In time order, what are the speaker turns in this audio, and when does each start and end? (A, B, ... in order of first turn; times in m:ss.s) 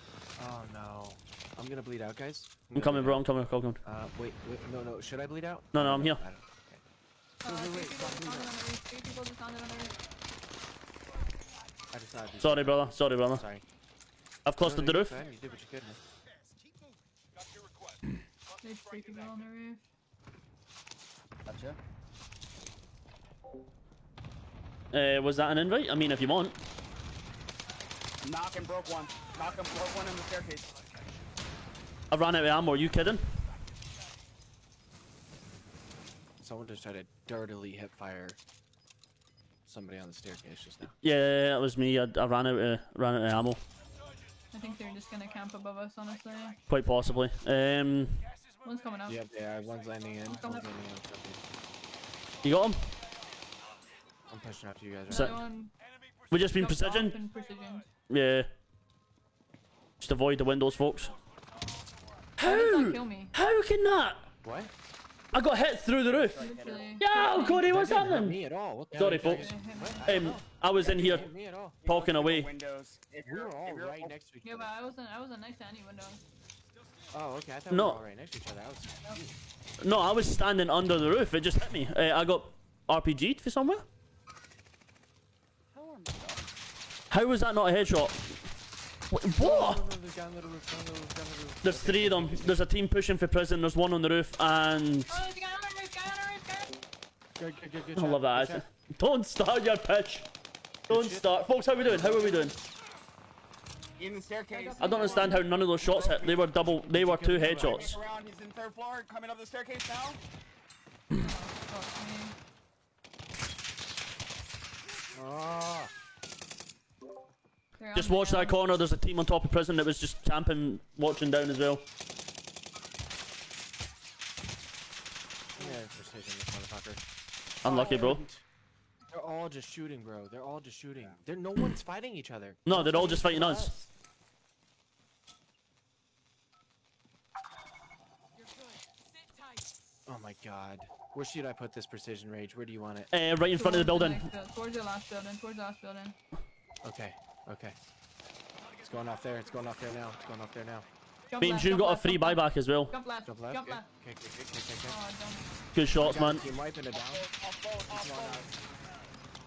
0:00.4-0:03.2 A
0:02.7-0:03.8 B
0:03.8-0:06.8 A
0:05.7-0:06.2 B
0:07.4-0:10.0 C
0:07.4-0:08.6 A
0:11.9-0:13.6 A
0:12.4-0:13.4 B
0:14.4-0:15.2 B
0:14.6-0:16.0 A
0:18.6-0:19.8 C
0:21.5-0:21.8 D
0:24.9-0:26.6 B
0:28.2-0:30.8 D
0:32.1-0:33.2 B
0:36.4-0:38.4 A
0:39.6-0:40.9 A
0:41.0-0:43.6 B
0:44.5-0:46.6 C
0:46.7-0:48.2 B
0:48.6-0:49.2 C
0:49.0-0:51.4 A
0:50.2-0:50.7 C
0:52.4-0:52.8 B
0:54.3-0:55.4 A
0:55.1-0:55.7 C
0:55.1-0:55.4 B
0:56.3-0:57.2 B
0:56.5-0:57.9 C
0:58.1-0:58.5 B
1:00.0-1:01.2 B
1:02.4-1:04.3 B
1:02.4-1:03.3 C
1:04.4-1:04.7 A
1:05.3-1:06.4 B
1:06.0-1:07.0 D
1:06.4-1:07.7 C
1:07.0-1:08.4 B
1:07.6-1:11.8 A
1:08.9-1:09.5 B
1:09.0-1:10.4 C
1:10.0-1:11.3 B
1:10.8-1:11.2 D
1:11.8-1:14.1 D
1:11.8-1:12.5 B
1:13.2-1:14.7 A
1:14.4-1:16.2 C
1:17.1-1:19.3 A
1:17.7-1:18.0 B
1:19.8-1:23.8 B
1:25.7-1:26.4 D
1:27.1-1:28.4 B
1:29.1-1:29.8 B
1:29.4-1:32.6 A
1:31.6-1:35.1 B
1:35.1-1:36.8 C
1:37.4-1:38.6 A
1:37.9-1:40.3 B
1:40.9-1:41.3 A
1:40.9-1:42.6 B
1:41.8-1:42.6 A
1:44.0-1:46.7 D
1:44.5-1:45.5 C
1:44.8-1:48.0 B
1:46.8-1:48.0 A
1:47.4-1:50.2 D
1:51.2-1:52.4 C
1:55.1-1:55.9 A
1:57.8-1:58.6 C
1:57.9-2:01.8 B
2:05.6-2:07.0 A
2:07.6-2:08.2 B
2:07.6-2:08.4 A
2:07.6-2:08.2 C
2:09.1-2:13.8 A
2:11.0-2:11.2 D
2:12.6-2:13.7 B
2:20.0-2:23.1 A
2:23.1-2:24.3 B
2:23.5-2:26.2 C
2:26.8-2:27.8 A
2:28.8-2:30.9 A
2:31.3-2:33.9 C
2:31.4-2:32.9 B
2:33.2-2:35.0 A
2:34.8-2:35.5 C
2:35.7-2:36.4 B
2:36.0-2:37.3 A
2:36.9-2:38.5 D
2:37.9-2:38.5 A